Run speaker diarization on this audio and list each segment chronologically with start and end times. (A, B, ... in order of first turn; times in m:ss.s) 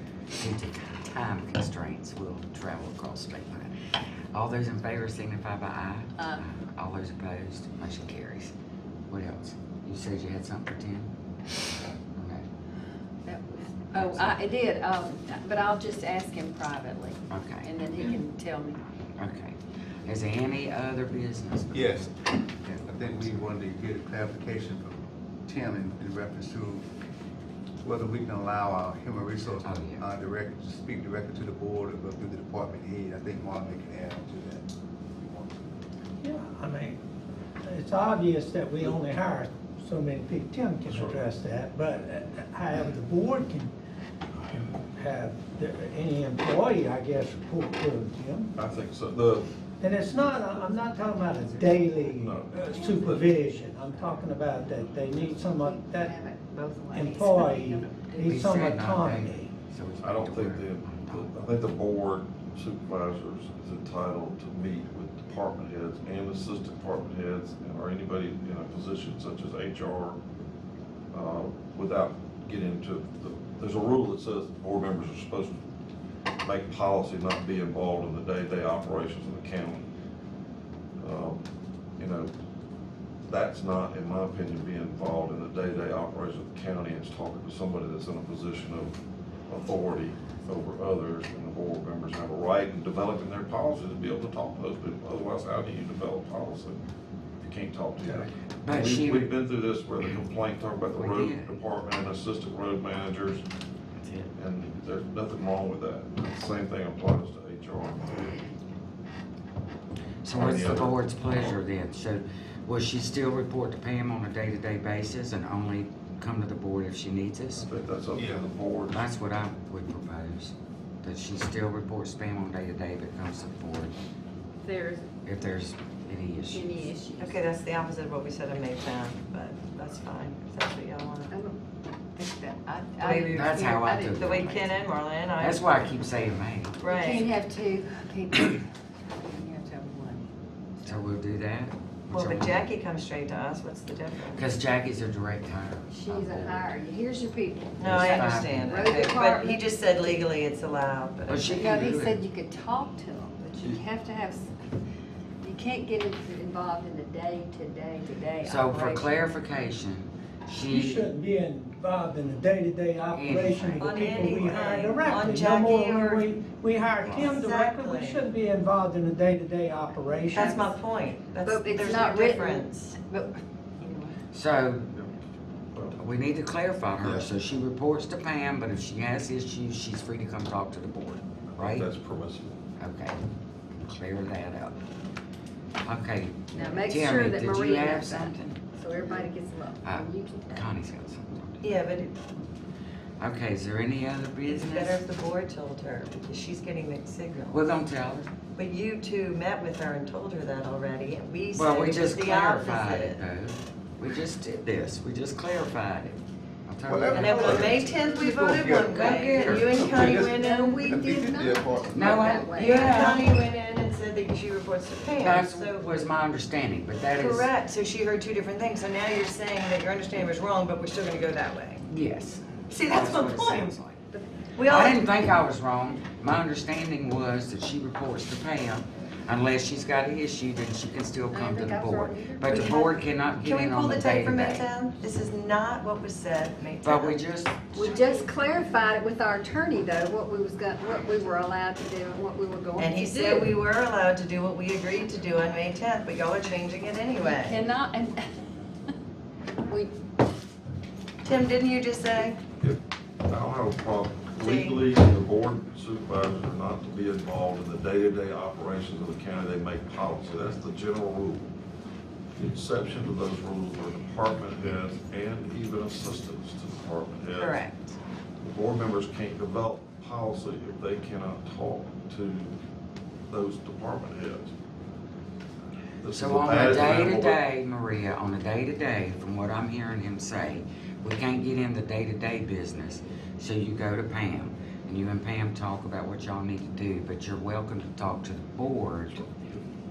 0:00.3-0:03.7 A
0:04.3-0:08.5 A
0:09.1-0:11.1 A
0:12.2-0:12.4 A
0:13.2-0:18.8 B
0:13.9-0:14.4 A
0:17.3-0:17.7 A
0:19.2-0:23.4 A
0:21.7-0:22.1 C
0:22.6-0:26.8 C
0:27.8-0:35.7 C
0:29.6-0:30.1 A
0:36.2-0:37.0 D
0:37.6-0:43.7 D
0:40.9-0:41.2 E
0:44.5-0:48.5 D
0:48.6-0:49.5 E
0:49.8-0:56.2 D
0:50.5-0:50.7 E
0:51.7-0:52.0 B
0:52.1-0:53.4 E
0:52.7-0:53.1 B
0:55.4-0:58.1 B
0:56.9-0:59.5 D
0:58.2-1:01.3 A
1:00.0-1:10.2 E
1:11.1-1:15.6 E
1:16.4-1:19.8 E
1:21.0-1:21.4 E
1:22.0-1:22.3 E
1:23.2-1:29.0 E
1:29.5-1:36.8 E
1:37.4-1:43.4 E
1:38.6-1:39.4 A
1:40.9-1:41.6 A
1:44.0-1:44.3 A
1:44.3-1:48.4 E
1:50.2-1:57.7 A
1:50.3-1:51.6 E
1:57.6-1:59.1 E
1:58.9-2:03.9 A
2:04.6-2:05.1 B
2:05.2-2:06.7 A
2:06.5-2:07.4 B
2:07.2-2:11.3 F
2:11.3-2:11.6 B
2:12.1-2:14.2 B
2:13.0-2:15.9 F
2:13.1-2:14.8 A
2:15.4-2:16.7 A
2:16.8-2:17.3 F
2:16.9-2:20.2 B
2:20.8-2:22.6 A
2:22.1-2:24.4 F
2:24.3-2:26.7 A
2:25.9-2:29.6 B
2:27.8-2:31.6 F
2:27.8-2:28.8 A
2:31.3-2:32.2 A
2:31.5-2:34.5 B
2:35.4-2:39.0 B
2:38.4-2:41.1 A
2:40.7-2:50.6 D
2:43.1-2:44.4 A
2:43.8-2:46.3 F
2:47.0-2:48.3 F
2:50.3-2:52.8 F
2:50.4-2:50.7 B
2:51.4-2:53.4 B
2:53.8-2:54.1 F
2:54.3-2:55.0 A
2:55.7-2:56.0 E
2:56.0-3:01.9 A
3:01.5-3:02.6 E
3:02.8-3:03.2 A
3:03.8-3:04.8 A
3:05.8-3:08.6 A
3:06.5-3:10.7 B
3:09.8-3:11.8 A
3:11.6-3:12.2 F
3:13.2-3:15.0 A
3:14.4-3:17.6 F
3:17.5-3:18.3 A
3:18.6-3:23.2 F
3:21.5-3:28.0 A
3:26.8-3:32.4 C
3:27.1-3:31.0 F
3:28.6-3:29.9 A
3:30.0-3:33.4 B
3:31.9-3:33.2 A
3:32.4-3:36.1 F
3:35.2-3:37.5 A
3:37.1-3:41.9 F
3:41.9-3:44.0 A
3:42.7-3:43.7 F
3:44.6-3:45.0 F
3:44.6-3:54.6 A
3:51.3-3:52.9 B
3:53.4-3:58.3 F
3:56.8-3:57.7 A
3:57.7-4:03.5 B
4:02.8-4:07.6 F
4:07.2-4:08.3 B
4:09.7-4:09.9 B
4:11.2-4:12.4 F
4:12.6-4:21.5 E
4:14.4-4:14.8 F
4:22.4-4:27.6 E
4:27.4-4:27.9 F
4:28.4-4:32.5 E
4:33.3-4:34.5 E
4:36.0-4:37.4 E
4:36.1-4:49.2 A
4:49.1-4:49.6 E